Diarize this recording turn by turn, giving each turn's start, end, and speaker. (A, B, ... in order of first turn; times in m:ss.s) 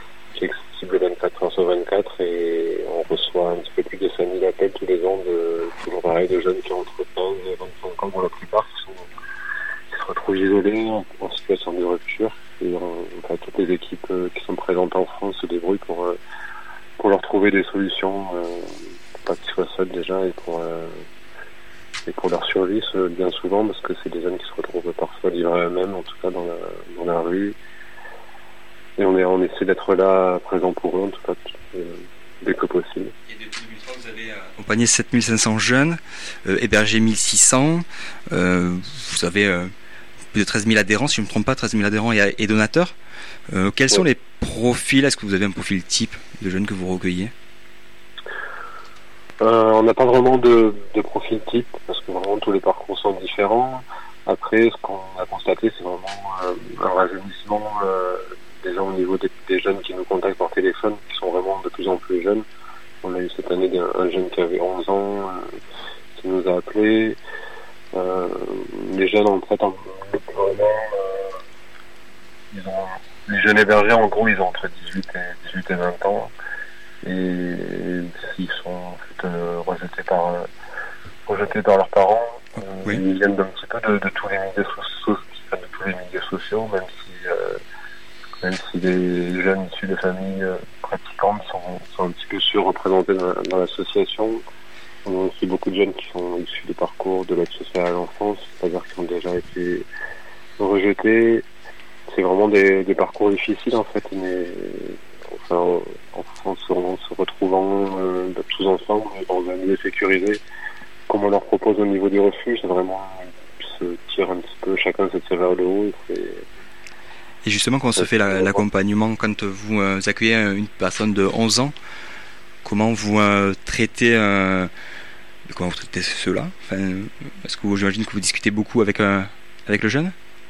0:00.4-0:09.1 A
0:09.9-0:16.2 A
0:17.0-0:21.0 A
0:22.1-0:27.6 A
0:29.0-0:33.1 A
0:33.3-0:39.7 B
0:40.3-0:43.0 B
0:43.5-0:47.3 B
0:49.4-1:02.4 A
1:03.0-1:05.5 A
1:06.2-1:07.2 A
1:07.9-1:11.4 A
1:12.5-1:16.3 A
1:17.0-1:20.5 A
1:21.3-1:27.6 A
1:28.4-1:34.4 A
1:35.0-1:39.9 A
1:40.6-1:41.4 A
1:42.1-1:50.4 A
1:51.1-1:56.4 A
1:57.4-2:01.7 B
1:58.0-1:58.6 A
2:02.6-2:04.7 B
2:05.5-2:10.1 B